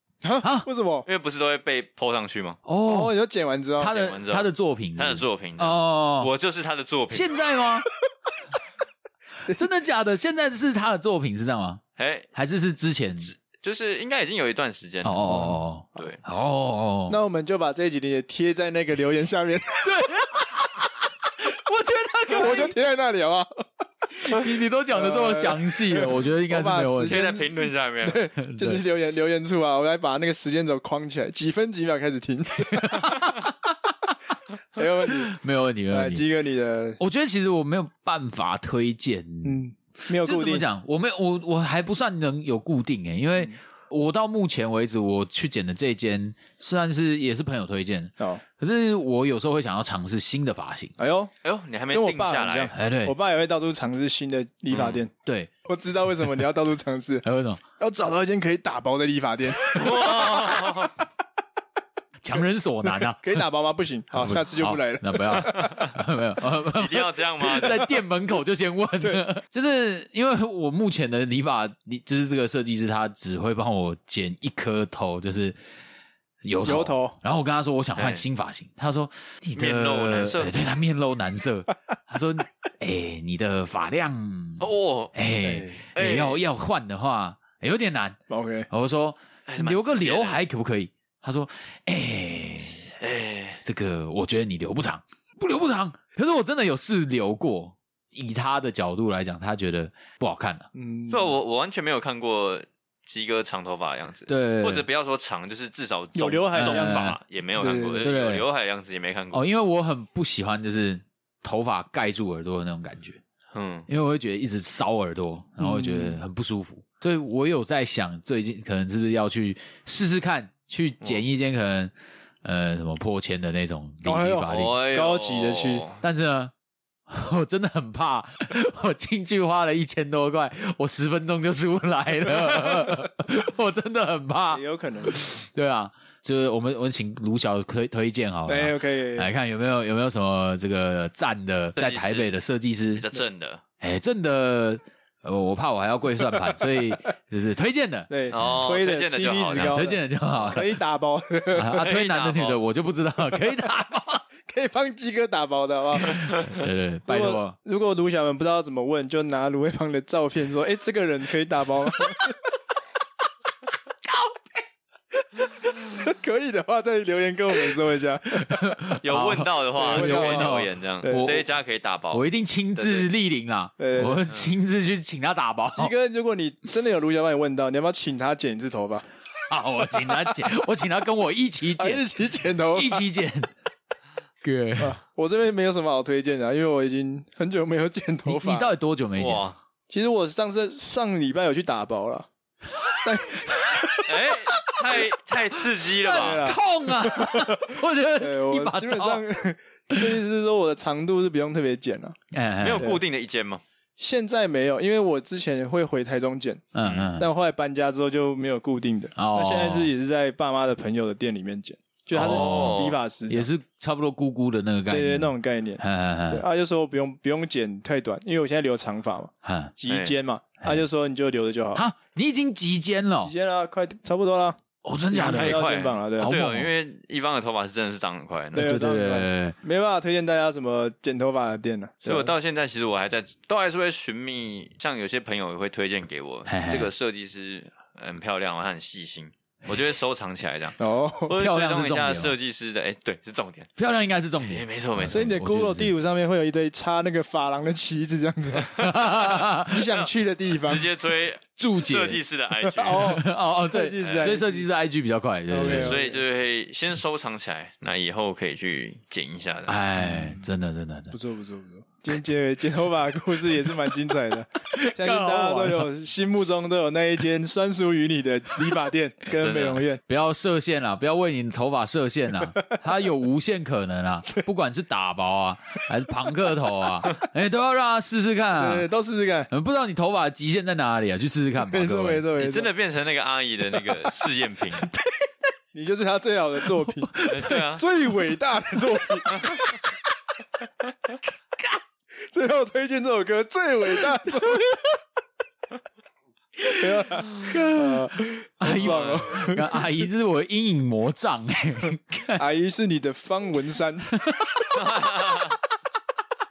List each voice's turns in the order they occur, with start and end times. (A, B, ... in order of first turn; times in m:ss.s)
0:00.2-0:01.1 A
0:00.4-0:00.7 B
0:01.1-0:02.6 C
0:02.6-0:03.1 B
0:02.8-0:04.0 A
0:03.8-0:06.3 B
0:03.8-0:07.4 C
0:07.1-0:07.9 B
0:09.4-0:11.8 B
0:12.0-0:12.3 C
0:12.3-0:13.3 B
0:13.2-0:15.4 C
0:15.0-0:17.2 B
0:15.3-0:15.6 A
0:16.0-0:16.2 C
0:17.1-0:20.2 A
0:19.8-0:22.8 B
0:22.3-0:23.6 A
0:24.2-0:27.2 B
0:24.9-0:33.4 A
0:27.0-0:28.2 C
0:28.4-0:28.8 B
0:32.8-0:33.4 B
0:34.7-0:35.4 A
0:35.1-0:36.3 B
0:35.9-0:37.0 A
0:37.0-0:39.6 B
0:39.4-0:40.7 A
0:40.2-0:50.9 B
0:51.0-0:51.3 A
0:51.4-0:52.7 C
0:51.9-0:55.1 A
0:52.7-0:53.2 B
0:54.7-0:55.0 C
0:55.2-0:55.5 B
0:55.7-0:57.2 A
0:57.2-0:57.6 B
0:57.8-1:01.0 A
0:59.7-1:01.0 C
1:02.2-1:03.3 B
1:02.9-1:05.9 A
1:04.1-1:15.6 B
1:05.3-1:06.0 C
1:06.7-1:08.0 C
1:16.4-1:28.2 B
1:16.6-1:17.2 A
1:18.0-1:18.2 C
1:19.6-1:20.6 C
1:24.6-1:25.2 C
1:25.4-1:25.8 A
1:25.9-1:26.4 C
1:28.3-1:28.7 A
1:28.7-1:32.9 B
1:29.5-1:30.4 C
1:33.0-1:33.6 C
1:33.6-1:40.7 B
1:40.8-1:41.4 A
1:41.1-1:49.4 C
1:44.3-1:44.9 B
1:46.2-1:48.1 A
1:46.6-1:47.2 B
1:48.0-1:48.4 B
1:49.3-1:53.2 B
1:53.5-1:53.9 C
1:53.9-2:04.8 B
1:55.6-1:56.2 A
2:04.0-2:05.8 A
2:04.5-2:06.0 C
2:06.0-2:06.5 B
2:07.1-2:23.0 B
2:14.5-2:15.2 A
2:18.5-2:19.3 A
2:21.8-2:22.4 C
2:22.9-2:23.6 C
2:23.8-2:28.7 B
2:26.2-2:27.0 A
2:28.1-2:31.8 A
2:28.3-2:29.9 C
2:29.6-2:30.8 B
2:31.6-2:34.2 B
2:31.8-2:32.6 C
2:34.5-2:36.5 A
2:36.1-2:37.6 B
2:37.1-2:42.4 A
2:45.3-2:48.8 A
2:48.3-2:51.5 B
2:49.0-2:52.2 C
2:49.8-2:51.4 A
2:52.1-2:55.9 B
2:52.8-2:53.1 C
2:53.8-2:54.2 A
2:55.8-2:59.0 A
2:59.5-3:02.0 B
3:01.8-3:03.0 A
3:02.7-3:03.5 B
3:04.4-3:05.0 B
3:04.8-3:08.7 A
3:08.2-3:09.5 B
3:09.2-3:09.6 C
3:09.9-3:12.3 A
3:13.0-3:14.4 A
3:14.0-3:16.5 C
3:15.9-3:19.2 B
3:16.0-3:22.2 A
3:22.3-3:22.9 B
3:22.6-3:23.6 C
3:24.0-3:26.6 A
3:26.7-3:27.3 B
3:26.8-3:27.1 C
3:27.2-3:33.5 A
3:29.2-3:29.9 B
3:32.1-3:36.4 B
3:32.2-3:33.0 C
3:34.9-3:41.8 A
3:39.4-3:39.7 B
3:39.9-3:40.2 C
3:41.8-3:43.3 B
3:43.2-3:44.6 A
3:44.8-3:45.7 B
3:45.1-3:46.4 A
3:45.2-3:48.7 C
3:46.2-3:46.7 B
3:48.5-3:52.3 A
3:48.6-3:49.6 B
3:52.0-4:03.7 C
3:56.5-3:56.9 B
4:00.8-4:01.4 A
4:01.3-4:02.4 B
4:03.8-4:05.9 B
4:04.4-4:05.3 C
4:05.1-4:08.9 A
4:08.8-4:09.8 B
4:08.8-4:13.2 C
4:09.6-4:10.9 A
4:11.6-4:12.2 B
4:12.6-4:14.7 A
4:12.9-4:16.0 B
4:14.0-4:14.4 C
4:15.5-4:16.2 A
4:15.6-4:19.8 C
4:19.7-4:21.2 B
4:20.0-4:20.5 A
4:21.1-4:30.0 A
4:24.7-4:25.9 B
4:29.3-4:29.8 C
4:30.1-4:38.9 B
4:38.6-4:39.5 A
4:39.5-4:42.3 B
4:41.6-4:42.7 A
4:42.4-4:44.9 C
4:45.7-4:49.8 A
4:47.0-4:47.6 B
4:47.3-4:47.8 C
4:49.2-4:49.7 B
4:49.4-4:49.6 C
4:52.3-4:54.7 A
4:54.2-4:54.9 B
4:56.6-4:59.9 A
4:57.4-5:02.4 B
4:58.6-4:59.3 C
5:02.4-5:04.1 A
5:04.1-5:05.0 B
5:04.8-5:05.6 C